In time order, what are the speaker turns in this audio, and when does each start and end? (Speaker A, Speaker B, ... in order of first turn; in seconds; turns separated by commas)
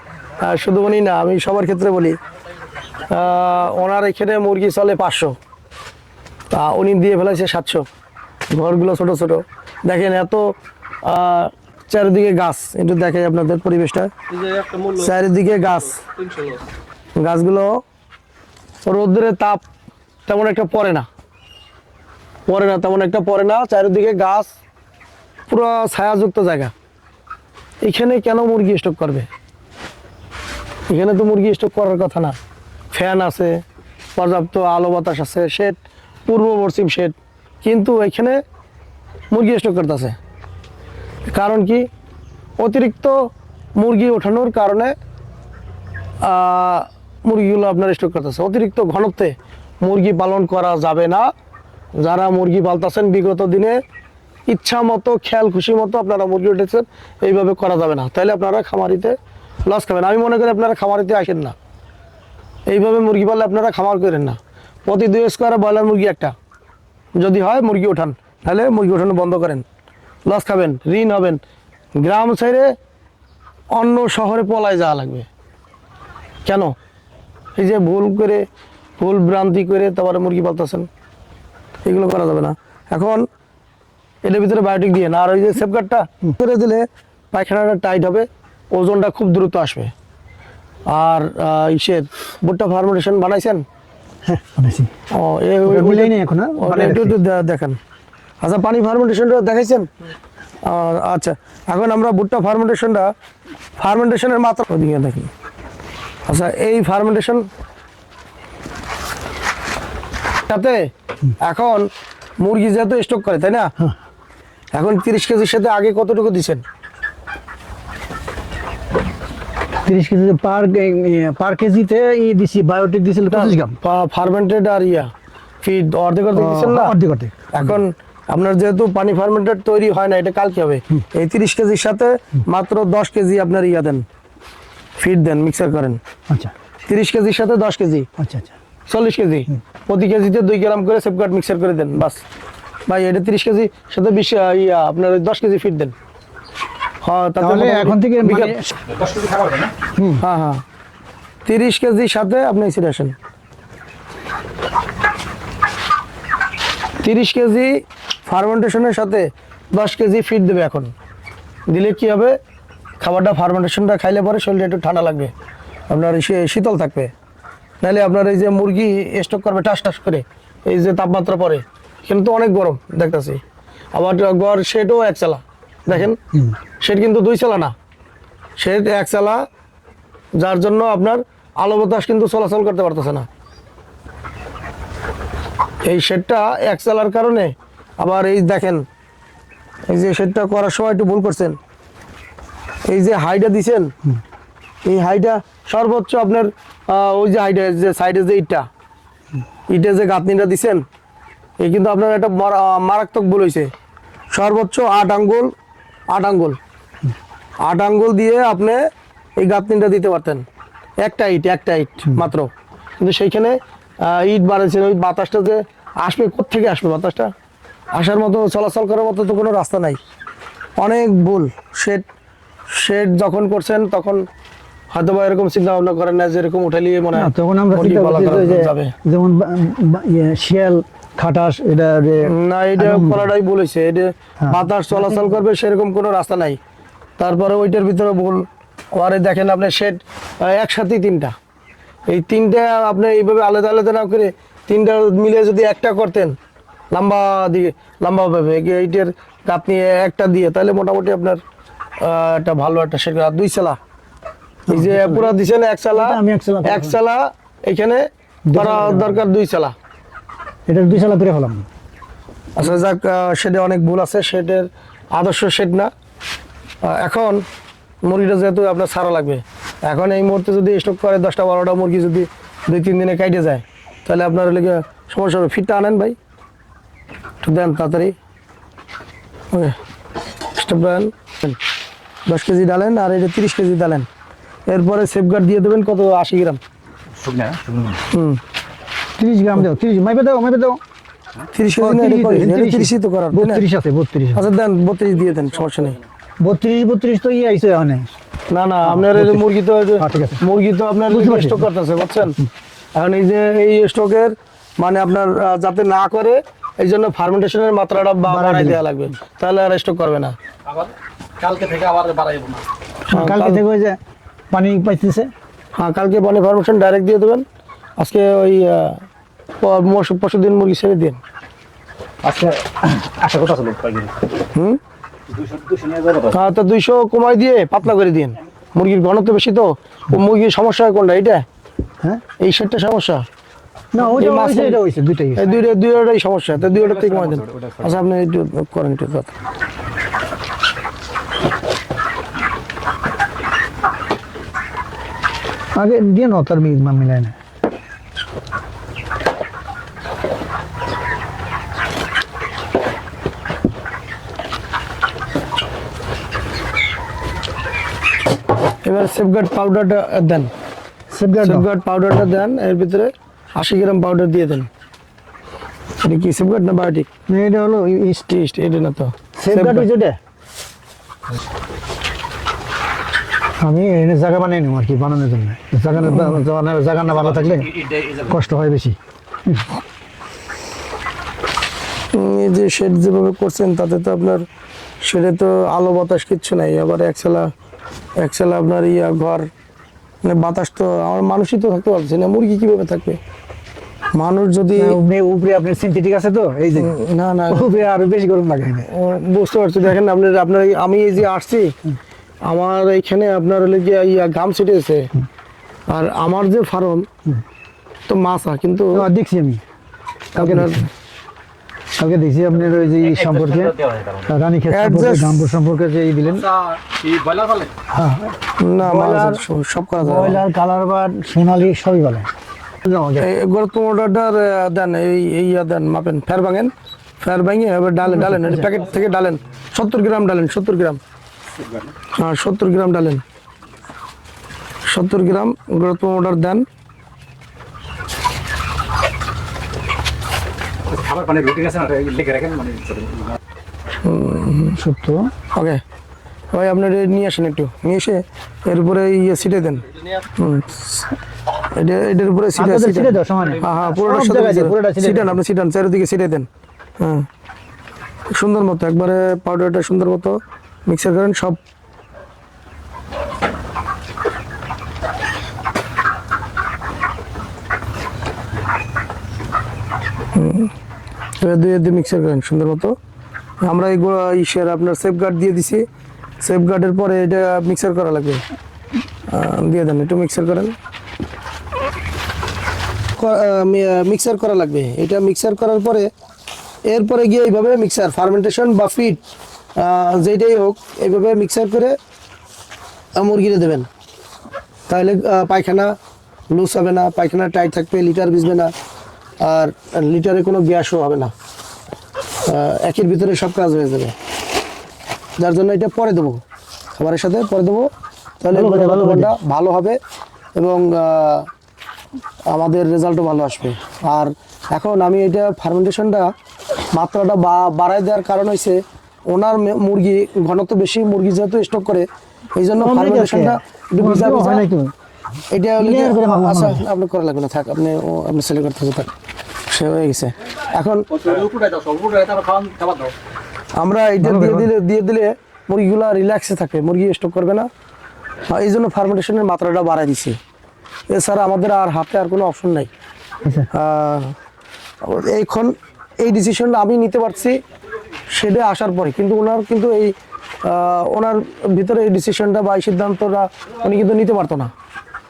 Speaker A: 0.4-2.2, Speaker A: 3.0-5.4, Speaker A: 6.5-7.9, Speaker A: 8.5-16.1, Speaker A: 17.2-17.8, Speaker A: 18.9-19.6, Speaker A: 20.3-21.1, Speaker A: 22.5-24.5, Speaker A: 25.5-26.7, Speaker A: 27.8-29.3, Speaker A: 30.9-32.4, Speaker A: 32.9-33.6, Speaker A: 34.1-38.4, Speaker A: 39.3-40.1, Speaker A: 41.3-41.9, Speaker A: 42.6-43.2, Speaker A: 43.8-44.9, Speaker A: 46.2-51.3, Speaker A: 52.0-53.8, Speaker A: 54.5-61.5, Speaker A: 62.7-66.3, Speaker A: 67.2-69.6, Speaker A: 70.2-71.4, Speaker A: 72.0-72.7, Speaker A: 73.7-75.3, Speaker A: 76.4-76.7, Speaker A: 77.6-78.4, Speaker A: 79.0-80.9, Speaker A: 81.8-83.2, Speaker A: 84.2-89.9, Speaker A: 90.9-93.6, Speaker B: 94.2-94.9, Speaker A: 95.1-97.8, Speaker B: 95.7-97.2, Speaker A: 98.4-99.9, Speaker A: 100.6-103.1, Speaker A: 103.8-105.3, Speaker A: 106.2-107.5, Speaker A: 110.5-110.9, Speaker A: 111.4-111.9, Speaker A: 112.4-113.7, Speaker A: 114.7-116.6, Speaker B: 119.8-123.8, Speaker A: 123.3-125.1, Speaker A: 125.6-126.9, Speaker B: 126.3-127.7, Speaker A: 127.5-134.0, Speaker A: 135.0-136.0, Speaker A: 136.9-138.1, Speaker B: 138.2-138.5, Speaker A: 138.9-142.2, Speaker A: 142.9-145.9, Speaker A: 147.0-148.5, Speaker B: 147.4-148.7, Speaker C: 149.0-149.7, Speaker B: 149.9-150.2, Speaker A: 150.2-150.6, Speaker A: 151.4-153.1, Speaker A: 157.0-160.9, Speaker A: 161.7-162.4, Speaker A: 163.0-165.3, Speaker A: 165.9-167.1, Speaker A: 167.8-173.4, Speaker A: 173.9-176.2, Speaker B: 175.9-176.5, Speaker A: 176.8-177.7, Speaker A: 178.6-179.4, Speaker A: 180.4-183.3, Speaker A: 185.8-188.8, Speaker A: 189.9-191.6, Speaker A: 192.8-193.9, Speaker A: 194.8-198.7, Speaker A: 199.7-200.8, Speaker A: 201.6-203.7, Speaker A: 204.3-205.5, Speaker A: 206.1-206.6, Speaker A: 207.6-208.8, Speaker A: 209.4-210.4, Speaker A: 211.0-212.5, Speaker A: 213.0-217.3, Speaker A: 217.9-220.0, Speaker A: 220.8-222.0, Speaker A: 222.7-224.2, Speaker A: 224.9-228.9, Speaker B: 227.1-233.3, Speaker A: 232.2-236.6, Speaker B: 234.4-235.2, Speaker A: 237.2-241.3, Speaker A: 242.1-246.3, Speaker A: 246.9-251.4, Speaker A: 252.0-253.8, Speaker B: 254.7-255.3, Speaker A: 254.7-259.7, Speaker B: 255.9-257.0, Speaker B: 258.5-259.2, Speaker B: 260.7-261.7, Speaker A: 262.6-265.9, Speaker A: 266.8-267.4, Speaker A: 268.0-276.1, Speaker A: 277.4-278.1, Speaker A: 280.5-281.6, Speaker A: 282.3-284.1, Speaker A: 284.7-286.6, Speaker C: 287.2-288.0, Speaker A: 288.1-288.4, Speaker B: 289.2-290.8, Speaker A: 291.5-293.6, Speaker B: 291.7-294.5, Speaker A: 294.3-296.0, Speaker B: 296.4-298.1, Speaker A: 298.5-302.4, Speaker B: 298.8-300.4, Speaker B: 301.1-301.7, Speaker A: 302.9-310.4, Speaker B: 308.2-308.8, Speaker C: 311.4-312.6, Speaker A: 313.1-313.6, Speaker B: 313.1-314.0, Speaker B: 314.5-315.3, Speaker A: 315.8-317.4, Speaker A: 318.0-319.0, Speaker A: 319.6-321.2, Speaker C: 322.2-324.2, Speaker A: 324.5-324.8, Speaker C: 325.3-326.3, Speaker A: 326.3-331.4, Speaker A: 332.4-333.2, Speaker B: 333.9-335.6, Speaker A: 334.0-334.8, Speaker A: 335.4-339.3, Speaker C: 337.2-337.7, Speaker B: 345.7-347.4, Speaker A: 358.8-360.5, Speaker B: 361.1-361.6, Speaker A: 361.4-364.7, Speaker A: 366.0-367.1, Speaker B: 367.3-368.3, Speaker A: 368.3-369.9, Speaker B: 369.4-370.2, Speaker B: 373.6-379.7, Speaker A: 376.0-376.4, Speaker A: 382.1-384.4, Speaker A: 385.0-387.5, Speaker A: 388.2-389.5, Speaker A: 390.2-393.2, Speaker A: 394.1-395.0, Speaker B: 394.8-397.0, Speaker A: 396.8-397.7, Speaker B: 397.5-398.9, Speaker A: 398.9-401.7, Speaker A: 402.4-405.1, Speaker A: 405.9-407.1, Speaker A: 408.1-409.0, Speaker B: 408.9-409.6, Speaker A: 410.3-410.8, Speaker B: 410.4-410.9, Speaker B: 412.0-416.5, Speaker C: 413.2-414.2, Speaker A: 414.7-415.4, Speaker C: 416.6-417.7, Speaker B: 417.9-419.4, Speaker A: 418.6-420.4, Speaker B: 420.0-422.3, Speaker B: 422.8-423.3, Speaker A: 423.2-431.0, Speaker B: 428.1-428.6, Speaker A: 432.1-433.2, Speaker A: 434.9-436.6, Speaker C: 440.9-443.4, Speaker A: 444.0-444.8, Speaker B: 444.7-445.3, Speaker A: 445.5-445.8, Speaker A: 446.5-451.1, Speaker A: 451.7-456.5, Speaker B: 452.5-455.4, Speaker A: 457.0-457.2, Speaker A: 458.3-461.6, Speaker A: 470.3-470.7, Speaker A: 471.4-472.9, Speaker A: 473.6-475.8, Speaker A: 476.4-478.4, Speaker A: 479.3-480.7, Speaker A: 483.1-486.1, Speaker A: 486.9-489.2, Speaker A: 489.8-491.9, Speaker A: 493.2-493.9, Speaker A: 494.9-495.9, Speaker A: 496.5-498.7, Speaker A: 499.4-501.3, Speaker A: 502.5-504.1, Speaker A: 505.4-506.4, Speaker A: 507.0-507.9, Speaker A: 508.4-510.0, Speaker B: 508.5-509.3, Speaker A: 510.6-511.5, Speaker A: 512.5-516.3, Speaker A: 516.9-518.8, Speaker A: 519.3-524.6, Speaker B: 522.8-524.9, Speaker A: 525.5-529.1, Speaker B: 525.8-526.8, Speaker A: 529.7-531.4, Speaker C: 531.2-533.1, Speaker A: 533.8-537.7, Speaker B: 534.2-534.7, Speaker A: 538.5-540.4, Speaker A: 541.1-542.9, Speaker A: 543.7-544.3, Speaker A: 545.0-547.6, Speaker A: 548.3-554.7